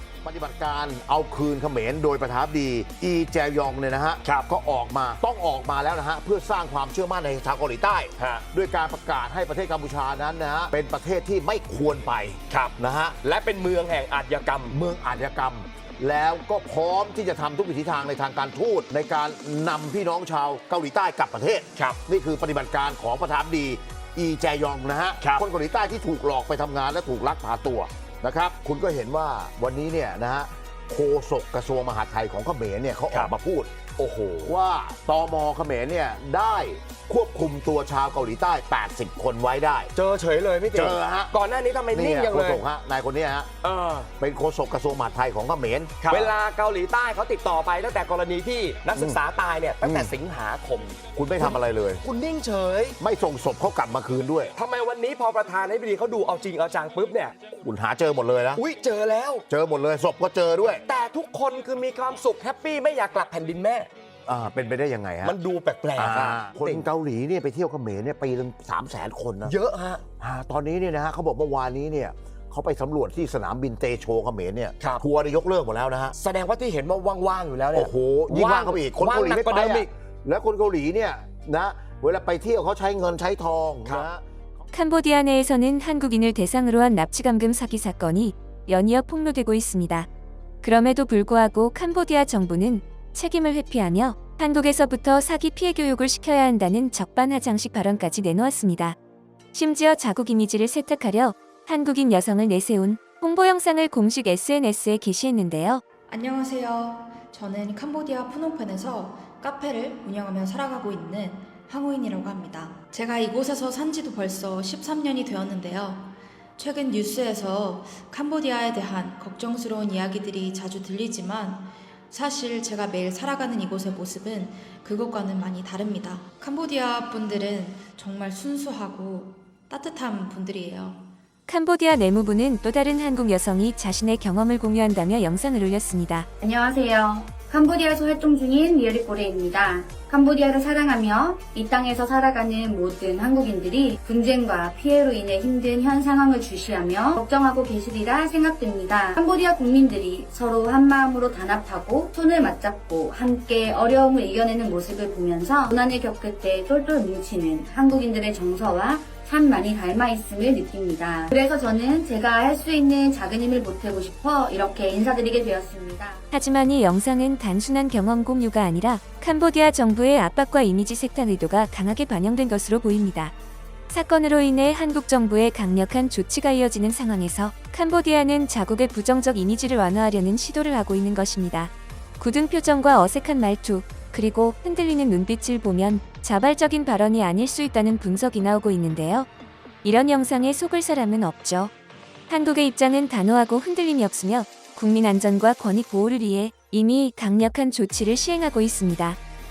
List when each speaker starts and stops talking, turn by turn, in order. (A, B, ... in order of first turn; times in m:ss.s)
0:00.2-0:13.2 A
0:12.5-0:14.7 B
0:14.7-0:33.8 A
0:34.0-0:34.5 B
0:34.4-0:39.9 A
0:39.9-0:42.6 B
0:40.7-0:41.3 A
0:41.9-0:43.5 A
0:43.6-0:44.1 B
0:44.2-0:46.2 A
0:46.0-0:53.0 B
0:49.8-0:50.1 A
0:51.1-0:52.0 A
0:53.0-0:54.5 A
0:54.6-0:57.4 B
0:57.6-0:58.6 A
0:58.6-0:59.4 B
0:59.5-1:00.8 A
1:00.9-1:03.9 B
1:04.2-1:05.4 A
1:05.2-1:06.9 B
1:06.0-1:09.5 A
1:09.4-1:10.0 B
1:10.2-1:16.2 A
1:16.1-1:19.9 B
1:17.7-1:24.2 A
1:24.7-1:30.1 C
1:30.6-1:39.0 C
1:39.5-1:45.8 C
1:46.1-2:11.1 D
2:11.5-2:16.3 C
2:16.4-2:46.2 E
2:46.3-2:53.3 C
2:53.9-3:09.3 C
3:09.8-3:11.7 C
3:12.3-3:19.2 C